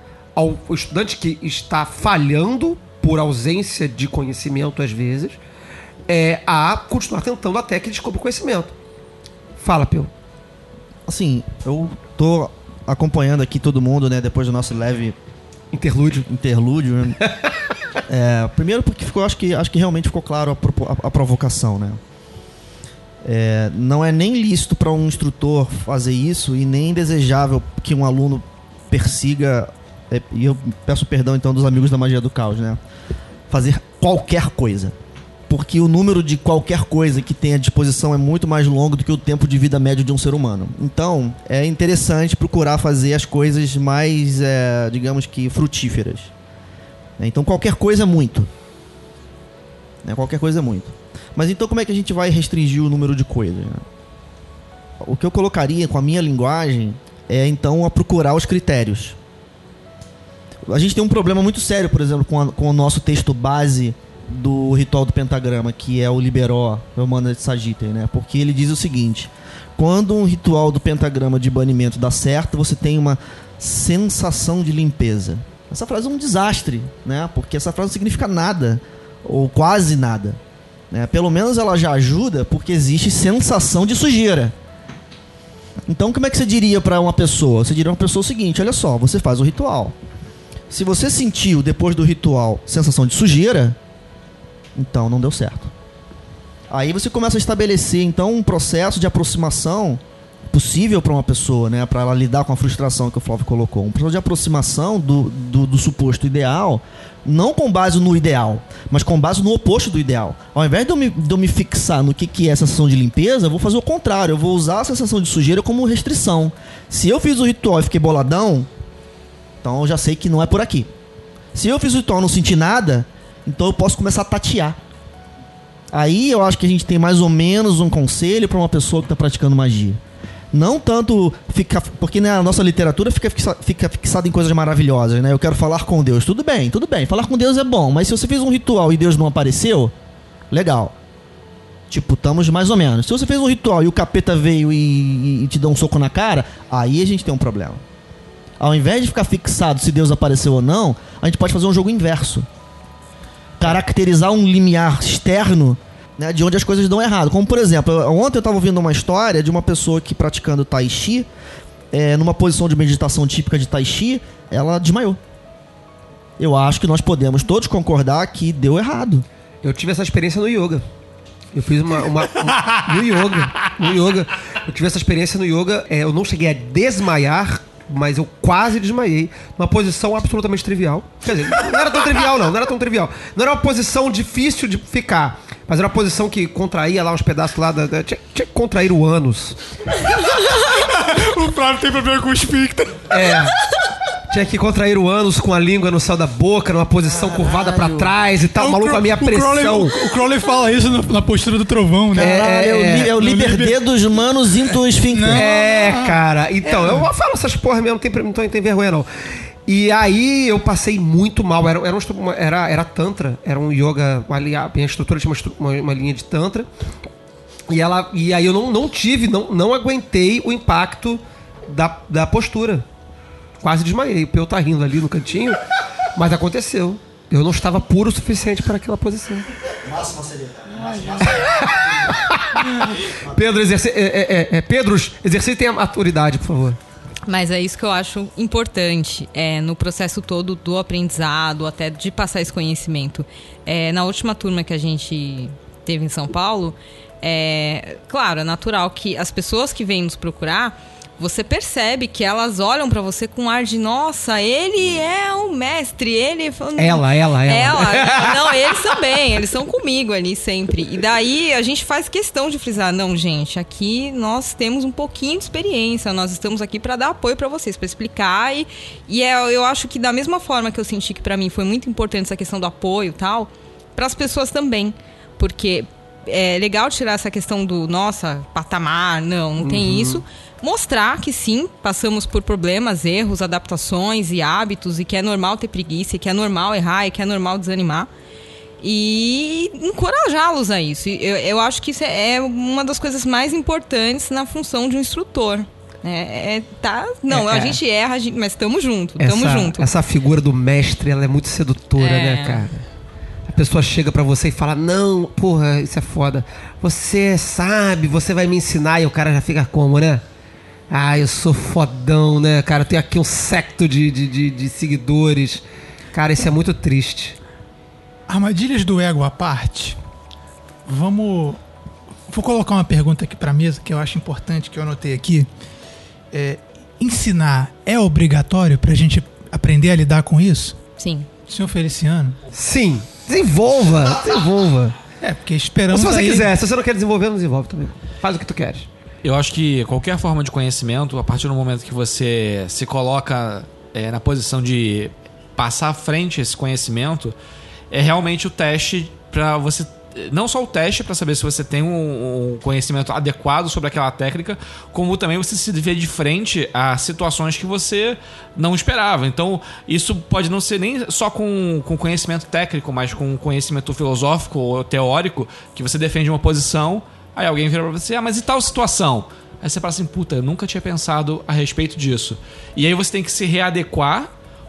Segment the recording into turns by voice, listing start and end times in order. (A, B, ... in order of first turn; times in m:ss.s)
0:00.4-0:05.4 A
0:06.1-0:08.8 A
0:09.6-0:10.1 A
0:11.1-0:15.2 B
0:15.7-0:16.3 A
0:16.3-0:17.2 B
0:18.1-0:22.0 B
0:23.2-0:32.8 B
0:33.5-0:34.9 B
0:35.5-0:46.3 B
0:47.2-0:48.5 B
0:50.0-0:53.8 B
0:55.0-0:59.2 B
1:00.7-1:20.4 B
1:20.9-1:24.5 B
1:25.9-1:30.0 B
1:30.7-1:33.8 B
1:34.8-1:35.7 B
1:36.7-1:58.7 B
1:59.6-2:00.9 B
2:01.5-2:04.8 B
2:05.9-2:10.0 B
2:10.5-2:19.9 B
2:20.5-2:20.9 B
2:21.9-2:27.8 B
2:28.6-2:32.5 B
2:33.6-2:41.3 B
2:41.9-2:45.2 B
2:46.4-2:49.3 B
2:49.6-2:50.9 A
2:51.5-3:09.6 A
3:10.3-3:13.5 C
3:13.1-3:13.5 A
3:14.3-3:20.0 A
3:18.6-3:22.4 C
3:22.2-3:23.1 A
3:22.2-3:25.5 B
3:23.0-3:23.8 C
3:25.1-3:27.1 C
3:25.3-3:29.1 A
3:29.6-3:36.7 A
3:37.7-3:42.9 A
3:43.6-3:45.6 A
3:46.1-3:49.4 A
3:49.8-3:52.2 B
3:51.3-3:52.6 A
3:53.3-3:56.8 A
3:57.3-4:48.1 D
4:16.8-4:18.9 A
4:39.6-4:40.2 A
4:48.8-4:59.8 D
4:57.3-4:57.8 A
4:59.2-5:02.9 A
5:02.0-5:02.6 D
5:03.5-5:10.2 A
5:10.9-5:17.4 A
5:18.3-5:20.0 C
5:20.9-5:21.6 C
5:22.3-5:25.5 C
5:26.3-5:30.8 C
5:31.0-5:31.3 D
5:31.5-5:32.4 C
5:32.5-5:35.0 A
5:35.2-5:36.5 C
5:35.9-5:38.9 A
5:39.2-5:47.4 E
5:47.9-6:14.3 E